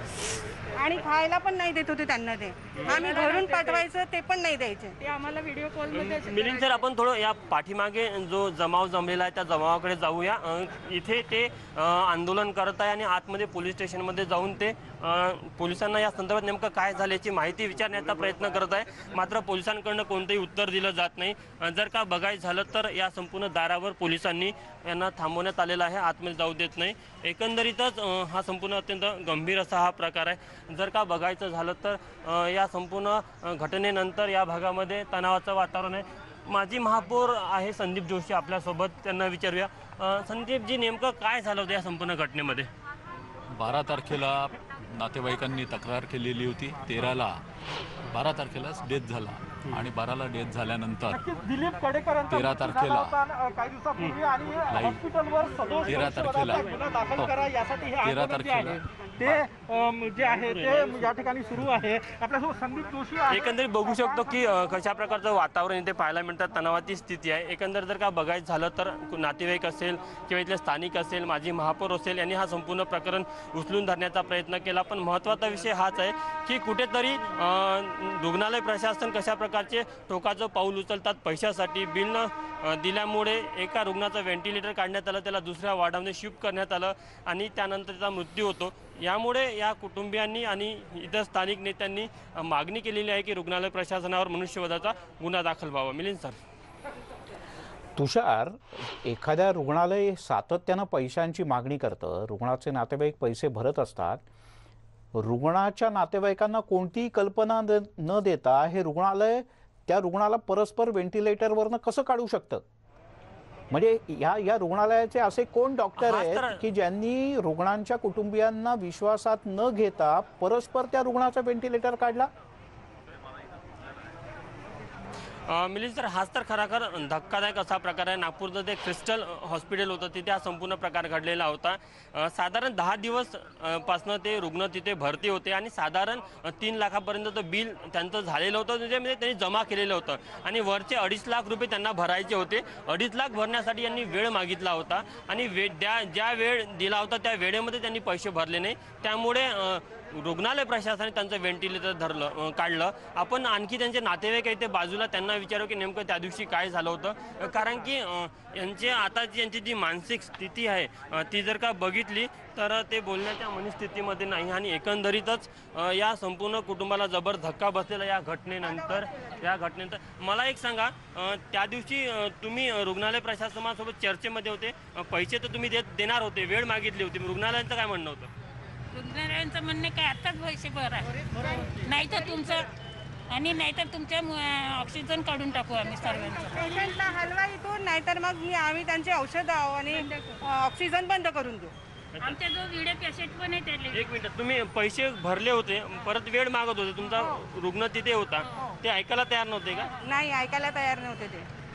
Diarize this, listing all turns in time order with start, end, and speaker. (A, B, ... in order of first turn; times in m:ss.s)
0:00.8-0:05.0 A
0:02.7-0:03.0 B
0:02.9-0:03.8 C
0:05.0-0:06.8 C
0:05.9-0:42.7 B
0:43.5-0:47.4 D
0:48.1-0:51.2 D
0:51.1-1:04.2 E
0:52.3-0:53.2 D
0:54.7-0:55.0 D
0:55.9-0:57.4 D
0:58.0-0:58.9 D
1:00.2-1:01.1 B
1:03.3-1:36.4 B
1:38.0-1:44.2 F
1:45.1-1:52.6 F
1:53.7-2:02.3 F
1:56.0-1:56.6 B
2:05.5-2:58.3 B
2:58.9-3:02.7 G
3:03.3-3:06.8 G
3:06.5-3:11.7 A
3:12.2-3:14.1 G
3:13.9-3:19.9 B
3:20.0-3:21.5 A